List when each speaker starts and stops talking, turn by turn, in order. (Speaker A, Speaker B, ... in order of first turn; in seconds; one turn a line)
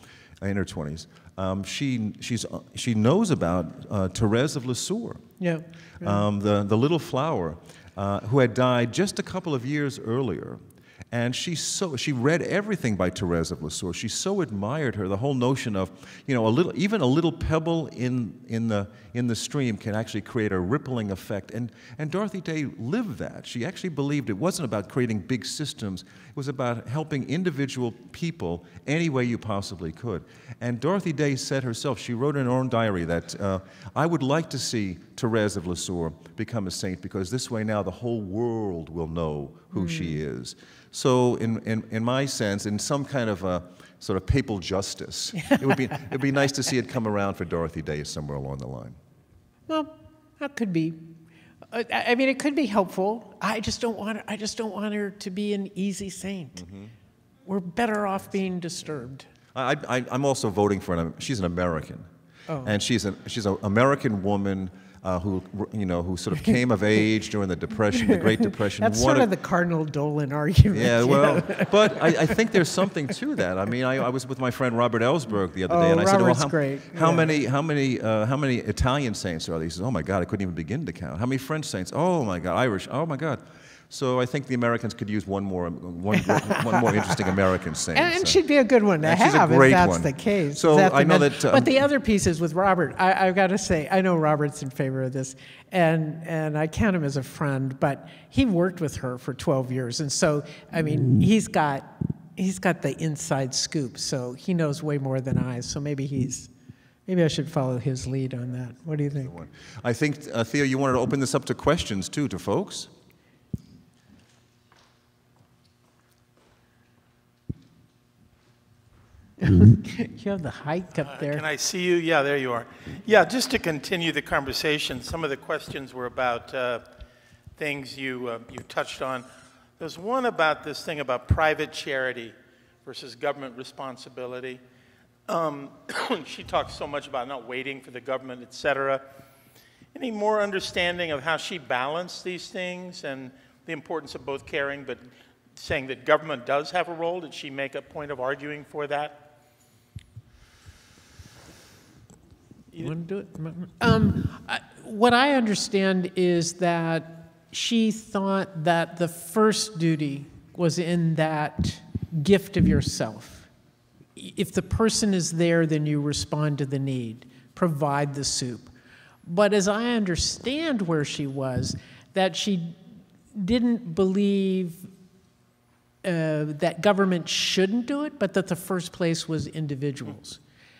Speaker A: 0.4-5.2
Speaker B: 5.4-6.2
Speaker A: 6.0-49.0
Speaker B: 39.7-40.2
Speaker B: 45.4-46.1
Speaker B: 49.7-51.2
Speaker B: 51.7-56.6
Speaker A: 56.6-56.9
Speaker B: 57.5-59.3
Speaker A: 59.5-62.1
Speaker B: 62.5-62.8
Speaker A: 62.6-69.3
Speaker B: 68.0-72.3
Speaker A: 70.7-88.4
Speaker B: 75.7-77.3
Speaker B: 86.2-87.2
Speaker B: 87.9-106.5
Speaker A: 89.0-91.7
Speaker B: 107.1-109.3
Speaker A: 109.2-112.9
Speaker B: 119.4-121.4
Speaker C: 121.0-126.8
Speaker C: 127.6-129.2
Speaker C: 129.8-134.6
Speaker C: 135.3-139.1
Speaker C: 139.9-149.3
Speaker B: 152.8-163.5
Speaker B: 164.2-168.7
Speaker B: 169.2-172.8
Speaker B: 173.3-174.9
Speaker B: 176.0-180.4